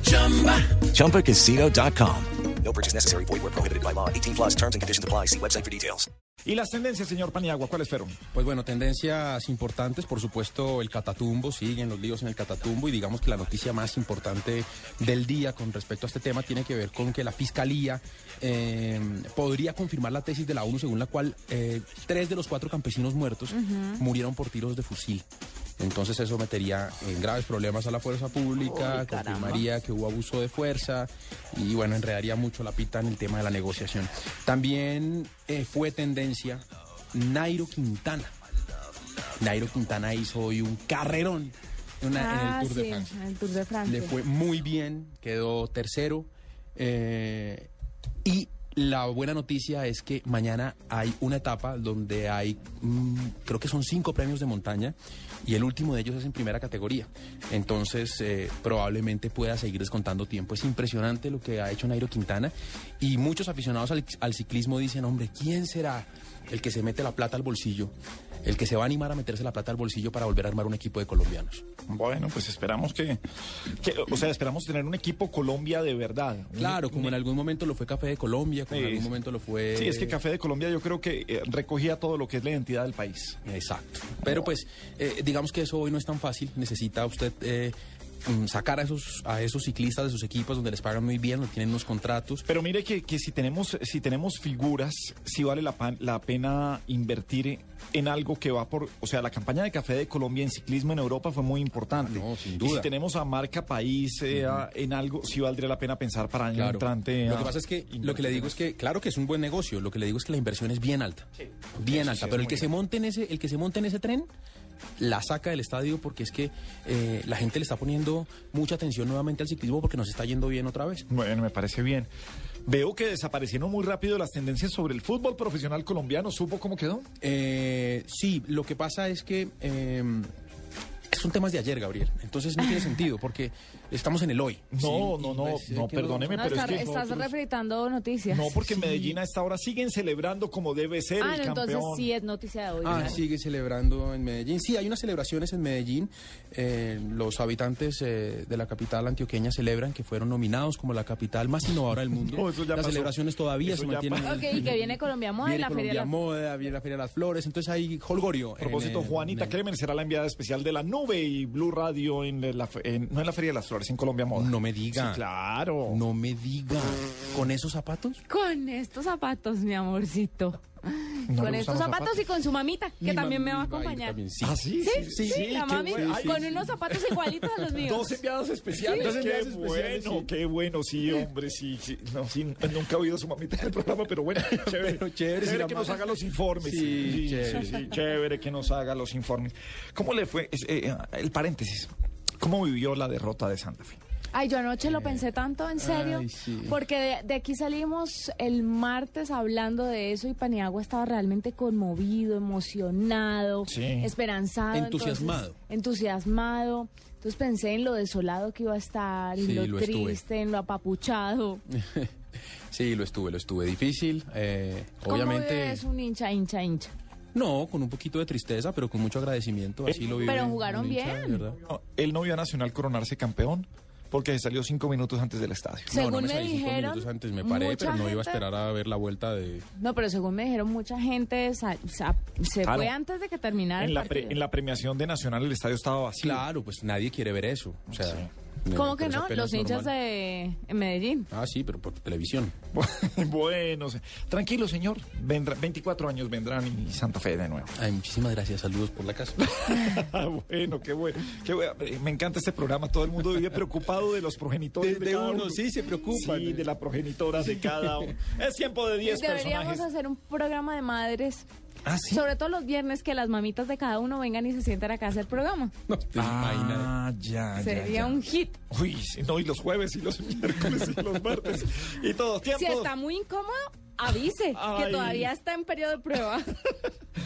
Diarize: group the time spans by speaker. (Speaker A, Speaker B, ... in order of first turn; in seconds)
Speaker A: 0.7-6.1
Speaker B: 6.4-8.2, 71.9-73.2, 73.8-77.2, 78.7-79.1, 79.7-83.4, 92.5-108.6, 111.8-112.7, 121.1-122.1, 122.7-127.0, 134.7-137.2, 138.3-142.1, 142.9-143.2, 152.2-154.7, 158.6-166.0, 171.3-172.2, 174.4-176.7, 177.8-194.0, 203.7-204.1, 219.9-220.4, 221.6-225.9, 232.6-232.9, 233.8-236.4, 237.9-238.3, 242.7-247.7, 249.4-259.9, 261.8-262.2, 266.1-272.9, 274.5-275.3
Speaker C: 8.3-25.2, 25.8-36.6, 37.1-38.3, 39.4-43.1, 43.8-47.7, 48.2-67.9, 68.4-71.6, 76.5-80.2, 83.4-92.4, 101.9-102.9, 104.3-104.7, 106.5-114.3, 115.0-121.0, 127.2-130.3, 131.1-137.3, 142.8-154.8, 155.4-159.6, 164.3-165.2, 165.9-168.2, 173.0-177.8, 178.7-180.3, 184.4-187.9, 194.8-195.2, 195.8-196.8, 204.7-205.6, 209.4-210.2, 211.7-212.1, 212.7-215.8, 217.3-221.6, 225.9-229.7, 236.2-239.9, 241.3-242.5, 247.7-249.4, 254.8-256.7, 257.4-258.1, 265.9-266.9
Speaker D: 23.5-24.0, 28.6-29.6, 42.1-44.1, 136.3-139.2, 141.2-143.2, 154.2-156.2, 168.3-174.2, 174.8-178.2, 178.8-179.1, 194.3-211.6, 215.1-216.9, 220.2-221.5, 225.9-228.4, 229.8-234.4, 238.7-241.3, 259.1-261.5, 262.1-265.7, 267.6-268.6, 272.5-276.5